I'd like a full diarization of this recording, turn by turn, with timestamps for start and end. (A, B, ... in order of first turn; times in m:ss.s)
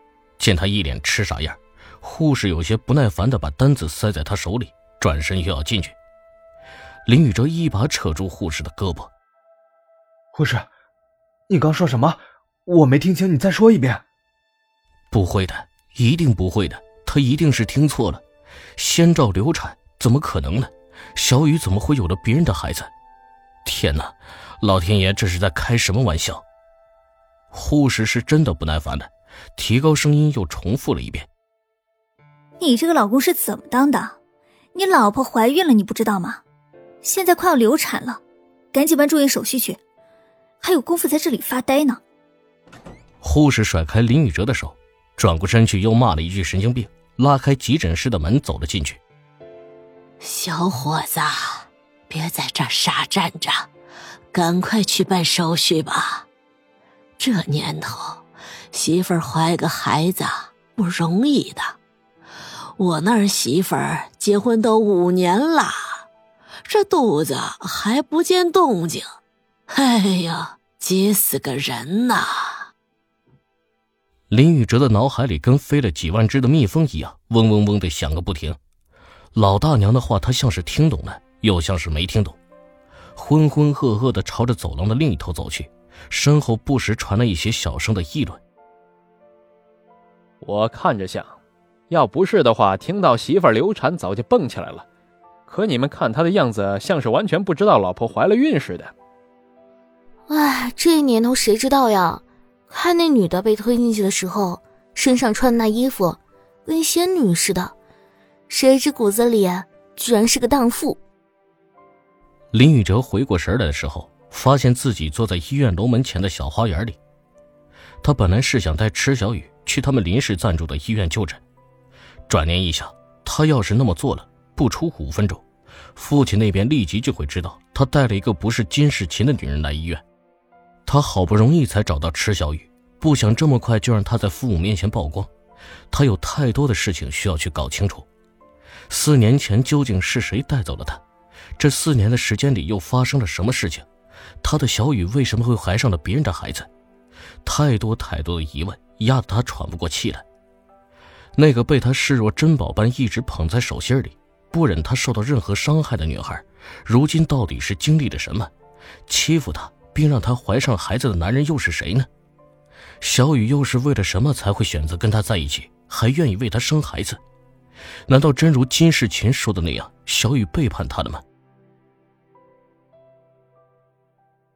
0:00.4-0:06.0 A
0:07.1-0:09.1 A
0:10.3-0:10.7 B
0:11.5-0:14.0 B
0:15.1-0:18.2 A
0:18.8-0:22.9 A
0:23.6-0:26.4 A
0:27.5-0:31.3 A
0:32.6-0:34.2 C
0:34.7-0:36.4 C
0:37.0-0:38.2 C
0:38.7-0:39.8 C
0:40.6-0:42.0 C
0:43.2-0:49.0 A
0:50.2-0:53.7 D
0:54.3-0:56.3 D
0:57.2-1:01.8 D
1:02.8-1:05.8 D
1:06.7-1:09.0 D
1:09.7-1:12.6 D
1:14.3-1:18.6 A
1:19.4-1:22.4 A
1:23.2-1:28.4 A
1:30.4-1:31.3 E
1:31.9-1:34.8 E
1:35.5-1:38.9 E
1:40.3-1:47.7 F
1:48.5-1:51.0 F
1:52.5-1:57.0 A
1:58.0-2:01.4 A
2:02.3-2:05.4 A
2:06.0-2:10.0 A
2:10.9-2:15.3 A
2:15.9-2:18.1 A
2:18.9-2:21.0 A
2:21.6-2:23.9 A
2:24.4-2:26.7 A
2:27.4-2:30.2 A
2:31.4-2:38.5 A
2:39.1-2:42.1 A
2:43.0-2:47.2 A
2:48.1-2:51.2 A